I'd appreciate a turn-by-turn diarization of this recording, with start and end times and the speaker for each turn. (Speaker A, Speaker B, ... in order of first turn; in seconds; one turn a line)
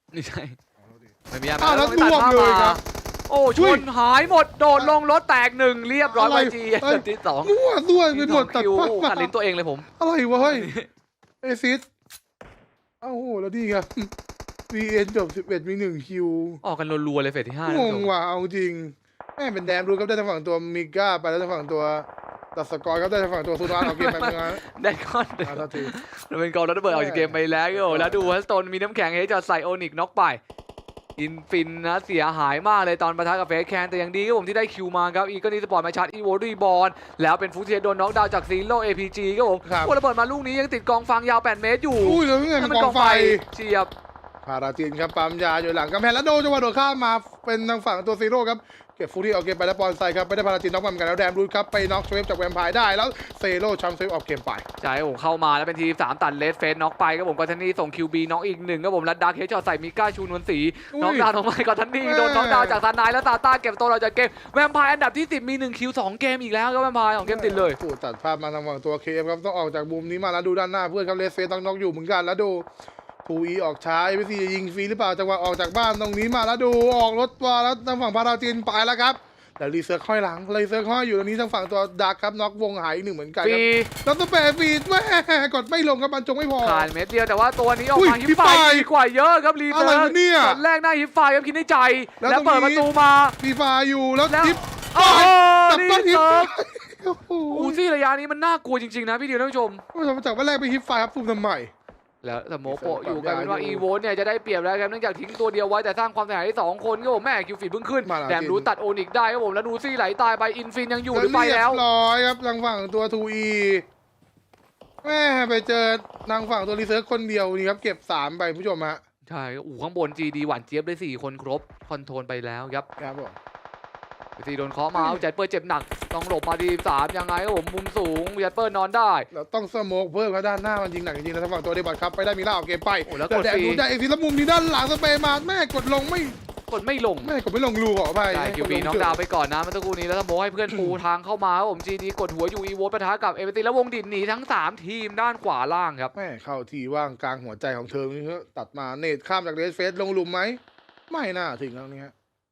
Speaker A: 0.1-0.6
Speaker B: 0.8-2.8
Speaker A: 1.3-7.6
Speaker B: 3.6-3.9
Speaker B: 6.1-9.3
Speaker A: 8.1-9.9
Speaker B: 10.0-10.7
Speaker A: 10.4-10.9
Speaker B: 11.4-11.9
Speaker B: 13.0-14.1
Speaker B: 14.7-16.6
Speaker A: 16.6-18.1
Speaker B: 17.7-24.6
Speaker A: 23.7-30.4
Speaker B: 25.4-25.9
Speaker B: 26.9-28.4
Speaker A: 31.2-43.9
Speaker B: 39.6-39.9
Speaker B: 42.0-43.5
Speaker B: 44.4-54.7
Speaker A: 54.8-67.8
Speaker B: 60.9-61.3
Speaker B: 62.0-62.8
Speaker B: 67.2-72.7
Speaker B: 73.2-86.9
Speaker A: 83.4-83.9
Speaker A: 86.6-93.3
Speaker B: 88.0-88.9
Speaker B: 89.7-90.6
Speaker B: 92.2-97.8
Speaker A: 94.3-96.5
Speaker A: 97.5-99.8
Speaker B: 99.9-101.7
Speaker A: 102.2-111.8
Speaker B: 102.7-103.8
Speaker B: 108.0-108.7
Speaker B: 111.1-113.9
Speaker B: 115.0-119.0
Speaker A: 119.3-122.9
Speaker B: 123.0-123.4
Speaker A: 124.4-129.3
Speaker B: 125.0-125.2
Speaker B: 129.3-136.4
Speaker A: 133.1-133.8
Speaker A: 136.7-137.3
Speaker B: 137.2-139.2
Speaker A: 138.3-146.1
Speaker B: 140.7-141.0
Speaker B: 146.2-152.1